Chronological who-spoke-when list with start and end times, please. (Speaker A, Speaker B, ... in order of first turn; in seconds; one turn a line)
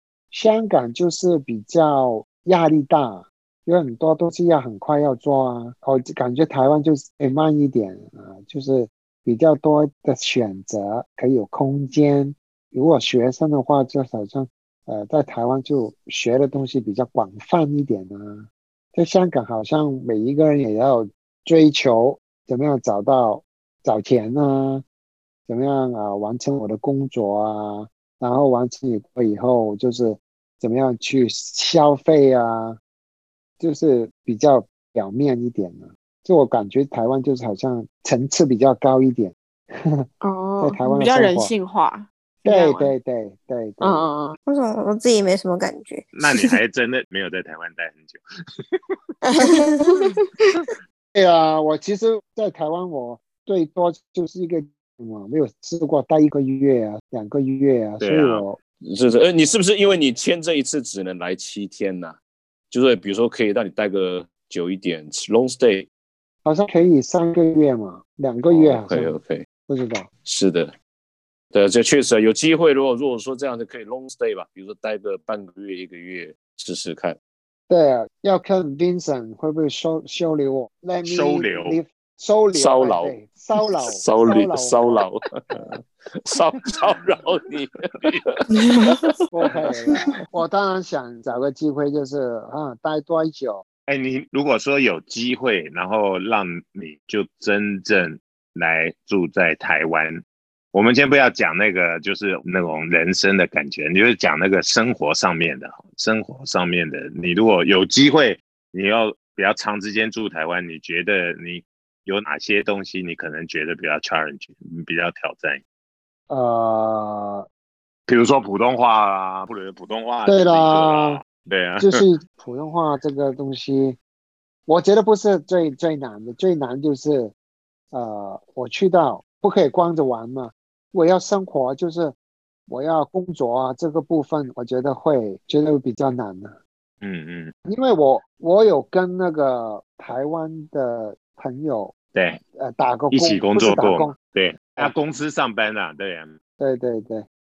Speaker A: 0.3-24.8
Speaker A: 25.5-32.8
Speaker A: 33.6-40.1
Speaker B: 40.2-42.9
Speaker A: 40.6-41.5
Speaker A: 42.4-44.1
Speaker B: 43.8-44.4
Speaker C: 44.5-46.6
Speaker D: 46.2-48.2
Speaker B: 49.2-50.2
Speaker C: 49.4-50.1
Speaker A: 51.1-58.6
Speaker D: 58.0-58.5
Speaker E: 58.8-62.2
Speaker E: 62.7-65.9
Speaker A: 66.5-69.2
Speaker E: 68.5-69.5
Speaker A: 69.7-70.1
Speaker E: 70.2-70.7
Speaker E: 71.5-77.2
Speaker A: 77.7-85.0
Speaker D: 81.0-81.8
Speaker E: 82.5-88.4
Speaker B: 88.5-89.2
Speaker A: 89.3-93.7
Speaker D: 93.9-100.2
Speaker D: 100.7-115.6
Speaker A: 116.3-117.5
Speaker D: 118.1-122.0
Speaker A: 120.3-121.2
Speaker A: 121.8-124.0
Speaker A: 124.7-127.3
Speaker A: 127.9-132.2
Speaker A: 132.7-136.6
Speaker D: 137.0-137.5
Speaker A: 137.7-141.9
Speaker D: 142.2-142.4
Speaker A: 142.6-144.2
Speaker D: 143.1-146.4
Speaker A: 146.6-147.3